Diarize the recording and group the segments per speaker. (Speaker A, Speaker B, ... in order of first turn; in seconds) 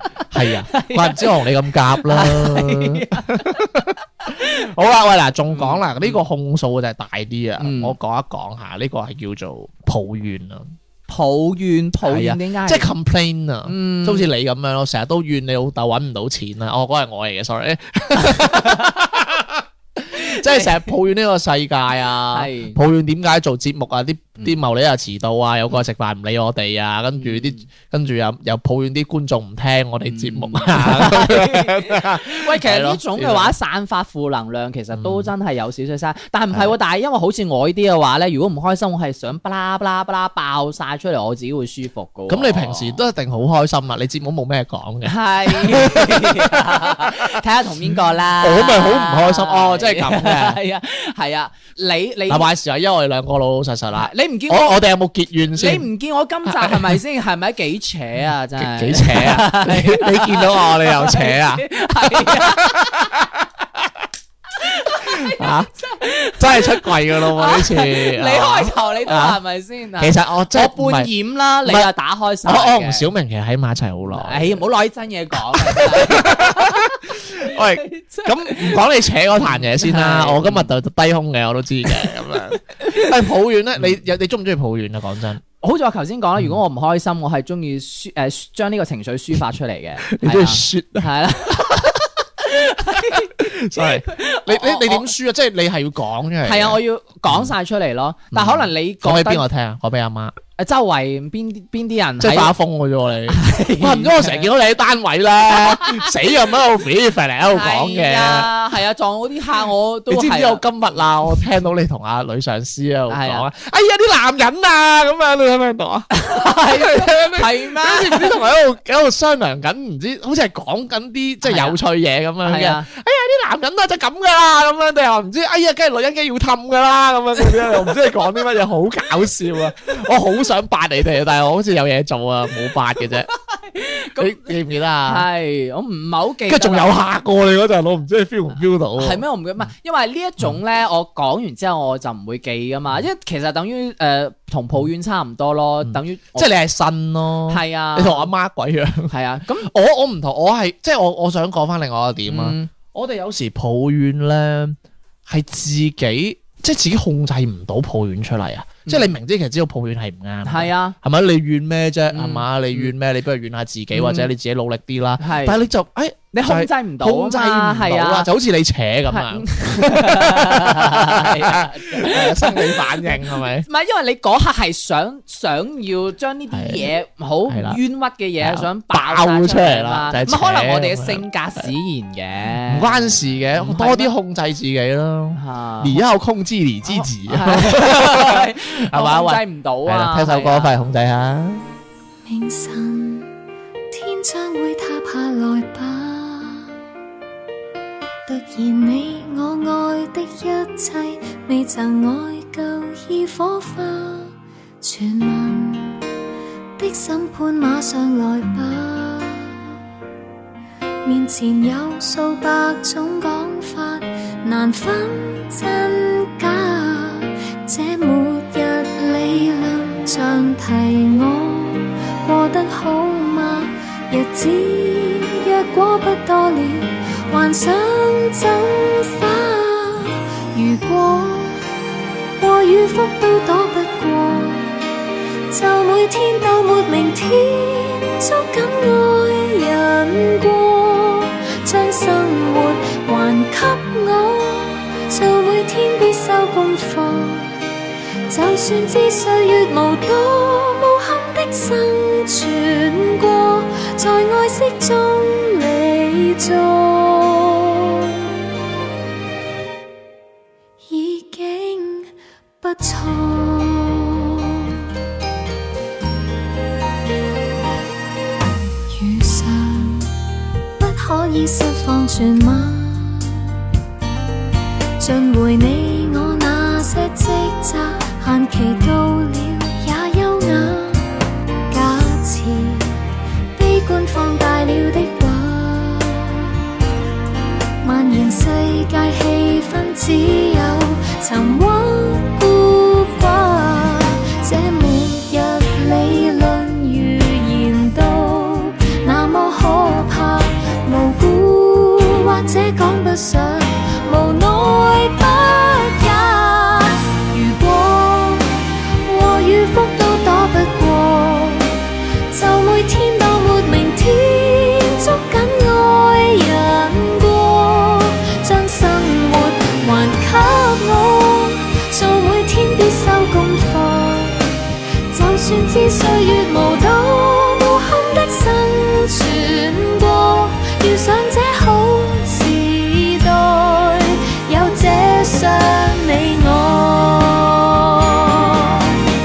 Speaker A: 0.3-10.7, 12.0-33.5, 34.9-35.3, 42.3-47.3, 48.4-50.6, 52.3-55.9, 56.5-57.0, 58.6-64.1, 65.0-65.7, 66.4-69.4, 70.0-71.1, 71.6-71.9, 72.4-74.7, 75.3-85.4, 90.1-91.9, 93.0-97.5, 98.3-100.4, 102.2-108.5, 110.1-133.3, 134.2-135.3, 136.5-139.2, 145.8-173.7, 176.5-176.9, 177.5-177.8, 178.4-181.7, 182.7-191.6
Speaker B: 0.4-4.5, 5.5-6.2, 7.6-8.0, 11.1-12.9, 13.7-14.3, 18.3-19.0, 20.2-20.9, 22.3-22.8, 27.2-27.6, 30.1-43.0, 45.0-52.5, 53.9-54.8, 55.5-62.9, 64.6-73.1, 74.1-78.8, 79.3-80.7, 82.8-83.1, 85.6-95.1, 96.4-99.5, 100.6-102.5, 103.3-104.5, 105.5-106.2, 107.5-110.7, 113.1-113.5, 116.1-118.4, 121.4-121.8, 122.4-122.9, 133.5-134.5, 135.1-137.0, 139.0-146.5, 147.5-148.3, 149.1-149.7, 152.3-152.7, 158.9-159.1, 160.4-161.0, 162.1-162.9, 163.9-164.3, 165.2-165.6, 166.3-168.3, 169.1-184.1, 185.3-186.0, 186.9-190.7
Speaker C: 192.3-193.3, 193.9-196.7, 198.3-206.0, 206.8-209.6, 211.1-231.6, 232.4-234.8, 235.5-247.5, 248.3-258.1, 260.9-264.8, 268.9-270.1, 270.8-273.5, 275.0-281.1, 281.7-283.0, 283.6-286.5, 287.8-311.7, 312.3-324.4, 325.1-339.0